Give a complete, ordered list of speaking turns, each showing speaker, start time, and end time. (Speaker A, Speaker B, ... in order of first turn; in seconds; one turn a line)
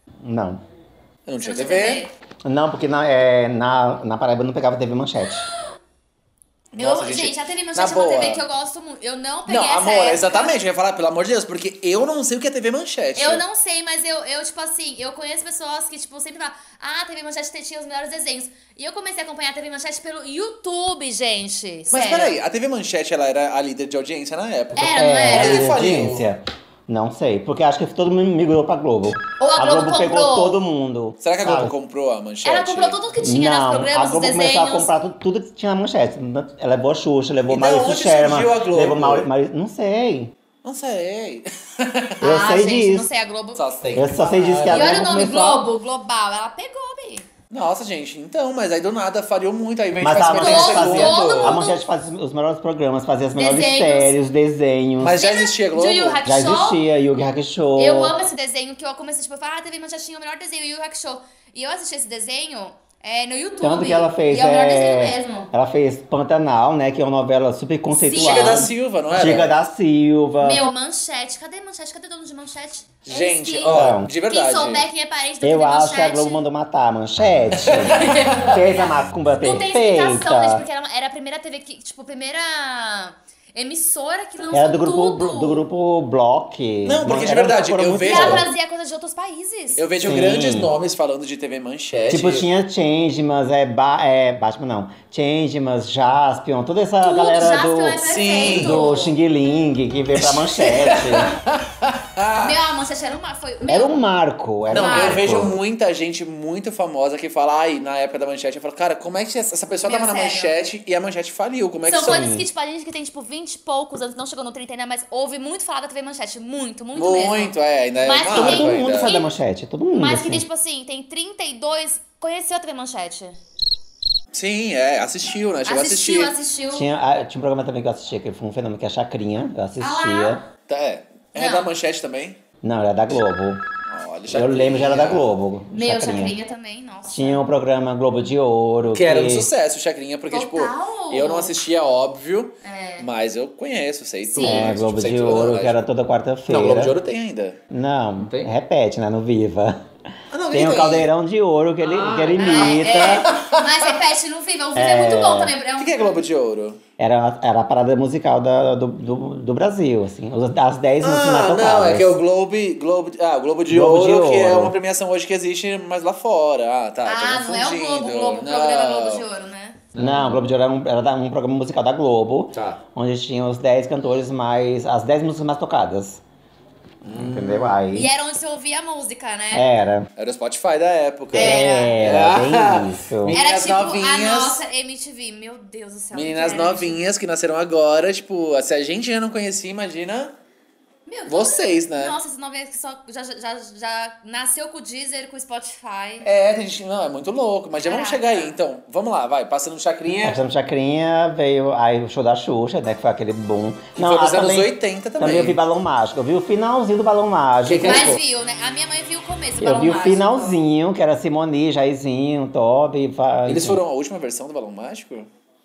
Speaker A: 0.2-0.6
Speaker B: 1.3-2.0
Speaker C: 1.4-2.1
Speaker A: 2.4-5.5
Speaker C: 6.7-10.5
Speaker B: 6.8-8.4
Speaker B: 9.5-13.4
Speaker C: 13.2-22.4
Speaker B: 21.9-26.3
Speaker C: 24.8-25.7
Speaker A: 24.8-31.7
Speaker C: 29.4-30.6
Speaker B: 31.2-33.0
Speaker C: 32.4-34.9
Speaker A: 33.2-40.3
Speaker B: 37.5-39.3
Speaker B: 40.6-42.2
Speaker A: 42.2-43.1
Speaker C: 42.2-43.7
Speaker B: 43.5-45.0
Speaker A: 43.9-45.6
Speaker C: 44.7-47.2
Speaker B: 47.5-51.6
Speaker A: 50.0-55.2
Speaker C: 50.4-51.8
Speaker C: 53.4-54.1
Speaker B: 55.0-56.2
Speaker C: 55.1-56.8
Speaker A: 56.2-58.1
Speaker C: 57.8-65.5
Speaker A: 63.6-70.6
Speaker C: 68.0-68.7
Speaker B: 68.1-69.5
Speaker C: 70.4-76.4
Speaker B: 73.0-74.8
Speaker A: 73.7-74.1
Speaker A: 75.4-80.6
Speaker B: 77.5-78.5
Speaker C: 77.9-85.6
Speaker A: 84.5-88.5
Speaker B: 86.8-88.5
Speaker C: 88.0-89.9
Speaker B: 89.8-92.5
Speaker A: 90.0-90.7
Speaker A: 92.1-101.3
Speaker C: 97.0-99.1
Speaker B: 98.0-98.8
Speaker B: 100.2-102.6
Speaker C: 102.4-103.9
Speaker A: 103.7-105.5
Speaker B: 104.7-112.3
Speaker C: 104.7-105.4
Speaker C: 109.8-110.7
Speaker C: 111.9-119.3
Speaker A: 112.0-112.5
Speaker B: 116.9-119.1
Speaker A: 118.3-120.5
Speaker C: 120.0-123.4
Speaker B: 124.3-126.3
Speaker C: 125.7-126.8
Speaker A: 126.7-130.4
Speaker C: 129.8-130.4
Speaker B: 130.7-132.4
Speaker C: 131.3-131.7
Speaker A: 132.6-133.6
Speaker B: 133.9-135.3
Speaker A: 134.3-136.3
Speaker C: 135.7-137.4
Speaker A: 137.1-139.5
Speaker B: 138.9-145.8
Speaker C: 140.3-141.6
Speaker C: 142.6-143.1
Speaker C: 144.3-144.7
Speaker A: 144.4-146.9
Speaker B: 146.5-147.6
Speaker A: 147.7-149.8
Speaker B: 148.2-148.5
Speaker B: 150.3-151.1
Speaker A: 150.5-153.3
Speaker B: 151.8-153.9
Speaker C: 152.4-156.1
Speaker A: 154.7-155.5
Speaker B: 155.8-156.8
Speaker A: 157.0-162.1
Speaker B: 161.0-169.2
Speaker A: 163.7-164.7
Speaker C: 167.1-169.8
Speaker B: 169.9-170.4
Speaker A: 170.0-176.2
Speaker B: 172.5-172.8
Speaker B: 177.0-177.8
Speaker A: 177.1-178.1
Speaker C: 177.9-179.7
Speaker A: 179.5-180.1
Speaker B: 180.2-184.6
Speaker A: 181.3-183.4
Speaker C: 181.3-182.0
Speaker C: 183.3-187.0
Speaker B: 186.1-190.3
Speaker C: 191.1-196.2
Speaker B: 191.3-192.2
Speaker B: 196.2-200.4
Speaker C: 197.8-198.5
Speaker A: 200.2-208.2
Speaker B: 203.9-205.6
Speaker B: 207.6-208.2
Speaker C: 207.8-210.6
Speaker A: 209.6-213.8
Speaker B: 213.4-215.3